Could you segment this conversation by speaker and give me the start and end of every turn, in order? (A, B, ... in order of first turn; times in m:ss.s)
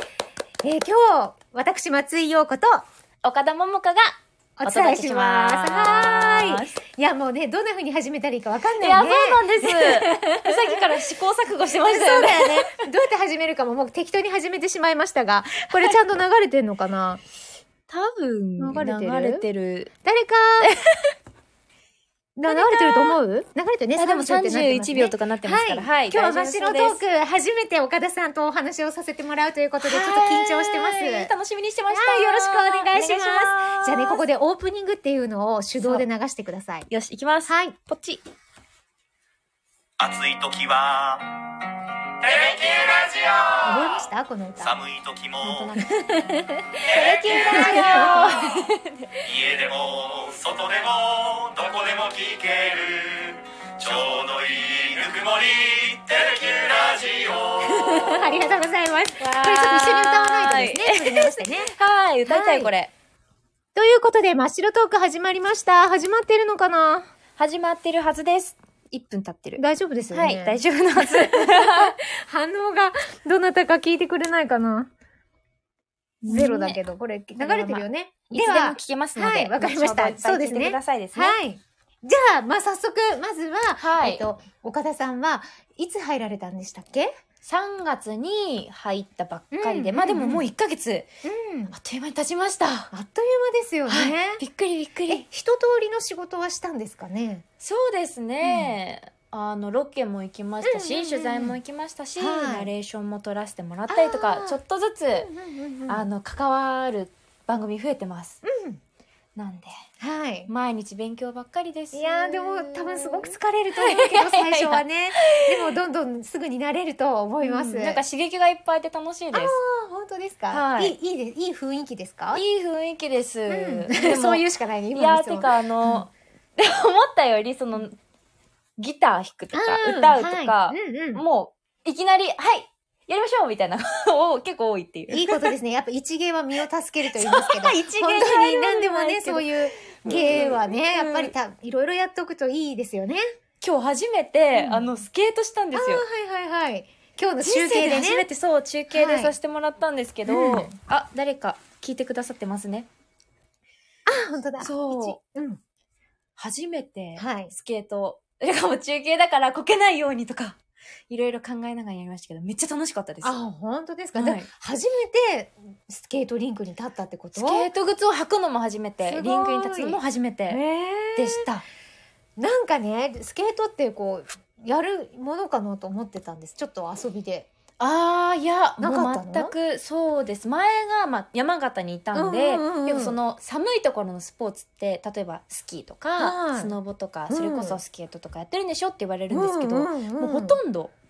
0:00.6-0:02.8 A
0:03.2-0:06.8 B
0:04.6-0:10.8 A
0:08.8-0:12.7 B
0:11.8-0:17.2 A
0:17.9-0:19.9 B
0:18.6-0:19.4 A
0:20.0-0:20.8 A
0:22.4-0:31.3 A
0:22.5-0:23.2 B
0:24.0-0:27.0 B
0:29.8-0:34.2 B
0:31.9-0:36.9 A
0:36.9-0:38.2 B
0:37.5-0:37.8 A
0:40.0-0:41.4 C
0:42.2-0:44.0 C
0:43.6-0:44.7 A
0:44.6-0:45.8 C
0:45.4-0:48.6 A
0:46.8-0:48.6 C
0:46.9-0:49.0 B
0:49.2-0:58.2 C
0:57.6-1:01.8 A
0:59.2-1:02.9 B
1:02.3-1:02.7 A
1:03.8-1:07.1 A
1:07.4-1:11.9 B
1:09.6-1:14.9 A
1:16.2-1:16.8 B
1:16.3-1:27.1 A
1:17.4-1:21.4 B
1:23.8-1:24.3 B
1:27.4-1:31.1 B
1:29.5-1:30.4 A
1:31.2-1:31.8 A
1:31.7-1:32.9 B
1:32.9-1:34.4 A
1:33.9-1:35.2 B
1:35.1-1:37.4 A
1:37.6-1:45.3 B
1:38.4-1:38.8 A
1:40.6-1:41.6 A
1:42.2-1:42.7 A
1:43.9-1:44.6 A
1:45.2-1:46.0 A
1:45.9-1:48.4 B
1:48.4-1:48.8 A
1:49.4-1:49.7 B
1:50.0-1:50.5 A
1:50.5-1:55.8 B
1:51.9-1:58.0 A
1:57.4-1:59.6 B
1:59.3-2:02.4 A
2:00.5-2:01.0 B
2:02.3-2:08.0 B
2:03.5-2:06.0 A
2:08.8-2:15.5 B
2:09.5-2:11.2 A
2:15.1-2:23.2 A
2:17.2-2:21.3 B
2:23.6-2:26.0 B
2:24.6-2:25.0 A
2:25.7-2:28.3 A
2:27.4-2:32.9 B
2:28.9-2:29.4 A
2:30.3-2:30.8 A
2:34.1-2:35.6 A
2:34.6-2:35.2 B
2:36.4-2:43.4 B
2:37.2-2:37.5 A
2:43.2-2:47.7 A
2:44.2-2:44.5 B
2:47.4-2:50.6 B
2:49.0-2:51.5 A
2:51.2-2:51.6 B
2:52.4-2:57.5 A
2:57.8-3:10.9 B
2:58.8-2:59.5 A
3:02.1-3:03.2 A
3:06.2-3:06.8 A
3:07.3-3:07.8 A
3:09.3-3:10.6 A